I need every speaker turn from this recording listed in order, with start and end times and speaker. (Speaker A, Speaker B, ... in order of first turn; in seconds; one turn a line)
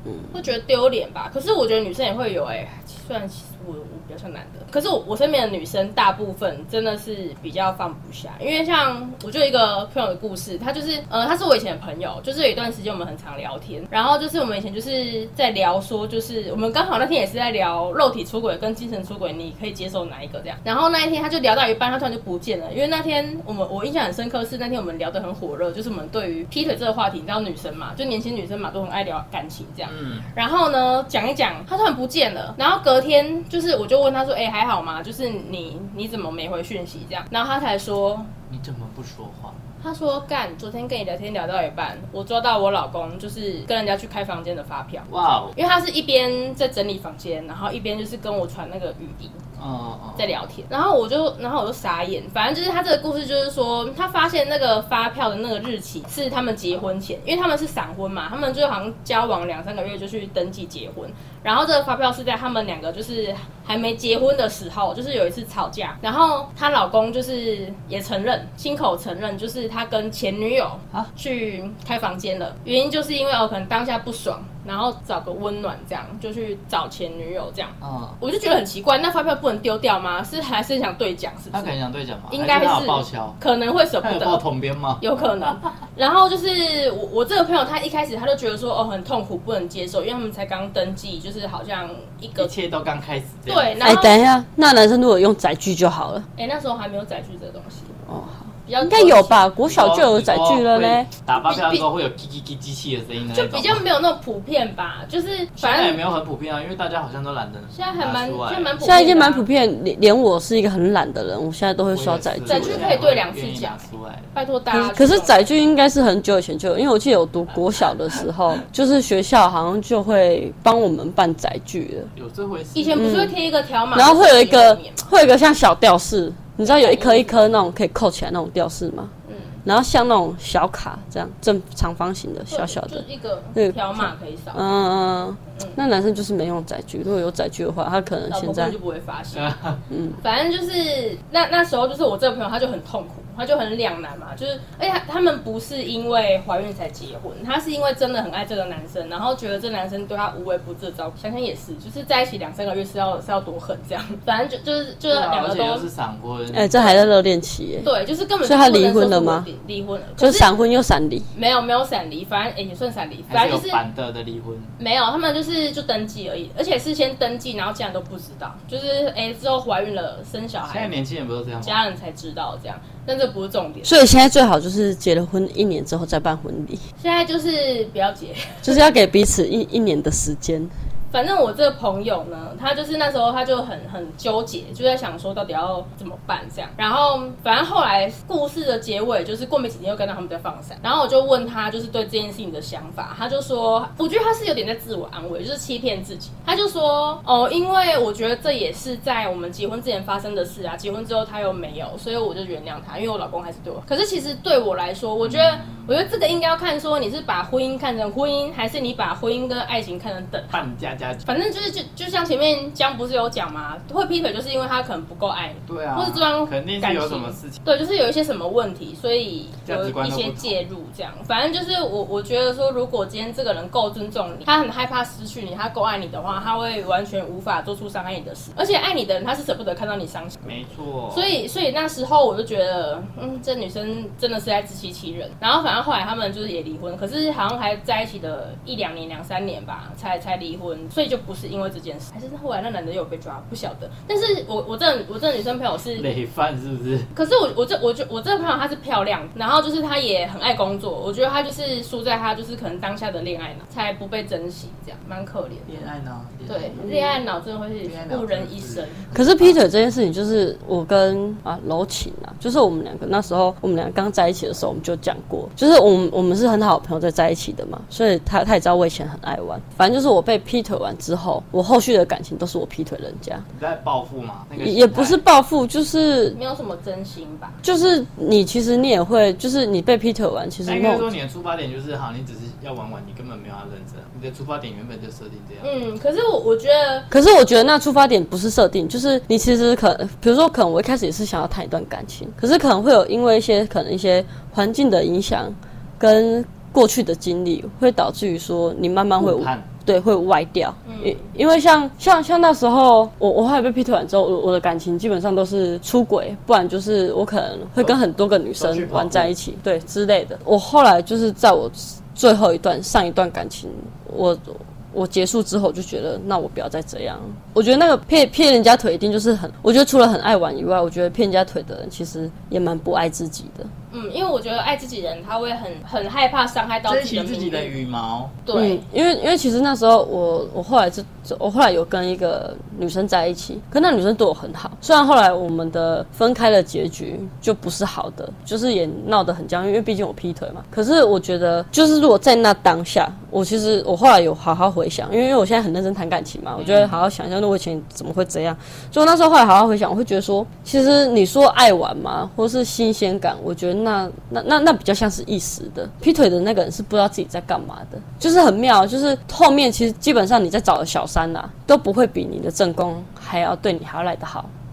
Speaker A: 0.3-38.3
Speaker B: 29.9-30.3
Speaker B: 38.5-39.6
Speaker A: 39.8-49.4
Speaker B: 45.1-45.6
Speaker B: 49.6-50.4
Speaker A: 50.1-81.7
Speaker B: 77.8-78.2
Speaker B: 81.5-83.4
Speaker A: 82.3-84.4
Speaker B: 84.0-85.1
Speaker A: 85.0-92.5
Speaker B: 92.4-93.8
Speaker A: 93.5-94.2
Speaker C: 93.8-96.3
Speaker A: 96.4-98.0
Speaker C: 98.1-101.1
Speaker A: 98.7-99.5
Speaker B: 99.6-103.8
Speaker A: 101.4-101.9
Speaker A: 103.3-106.0
Speaker B: 105.6-108.8
Speaker A: 107.7-109.5
Speaker C: 108.8-112.9
Speaker B: 111.9-114.3
Speaker A: 112.5-115.4
Speaker C: 114.7-122.1
Speaker B: 122.1-123.0
Speaker A: 122.8-125.1
Speaker C: 123.0-123.3
Speaker C: 123.9-129.1
Speaker A: 126.6-127.4
Speaker A: 129.3-129.6
Speaker C: 129.6-138.8
Speaker A: 132.5-134.7
Speaker A: 138.3-139.5
Speaker B: 139.3-139.8
Speaker C: 139.9-140.2
Speaker A: 140.2-155.9
Speaker B: 155.1-156.7
Speaker C: 156.5-157.9
Speaker A: 156.8-157.0
Speaker A: 157.8-160.5
Speaker C: 158.4-159.5
Speaker C: 160.2-161.3
Speaker A: 161.3-163.8
Speaker B: 163.3-164.7
Speaker A: 164.8-171.0
Speaker B: 170.7-171.8
Speaker A: 171.6-174.0
Speaker C: 173.8-176.8
Speaker A: 177.0-178.8
Speaker C: 178.6-180.7
Speaker A: 181.1-210.7
Speaker B: 205.2-206.0
Speaker B: 210.5-211.2
Speaker A: 211.2-246.1
Speaker B: 215.7-217.6
Speaker B: 219.6-220.6
Speaker B: 230.4-231.3
Speaker B: 245.9-247.1
Speaker A: 247.1-255.9
Speaker B: 255.7-256.9
Speaker A: 256.5-259.1
Speaker B: 257.9-259.6
Speaker C: 259.1-273.5
Speaker B: 273.5-275.2
Speaker C: 274.6-276.4
Speaker A: 276.3-277.6
Speaker C: 277.6-281.1
Speaker B: 280.6-285.7
Speaker A: 285.6-287.1
Speaker C: 287.1-323.7
Speaker B: 299.2-299.7
Speaker A: 300.9-301.3
Speaker B: 308.6-309.3
Speaker A: 323.9-327.7
Speaker B: 326.9-328.4
Speaker A: 328.4-328.8
Speaker C: 328.5-364.5
Speaker B: 346.6-347.0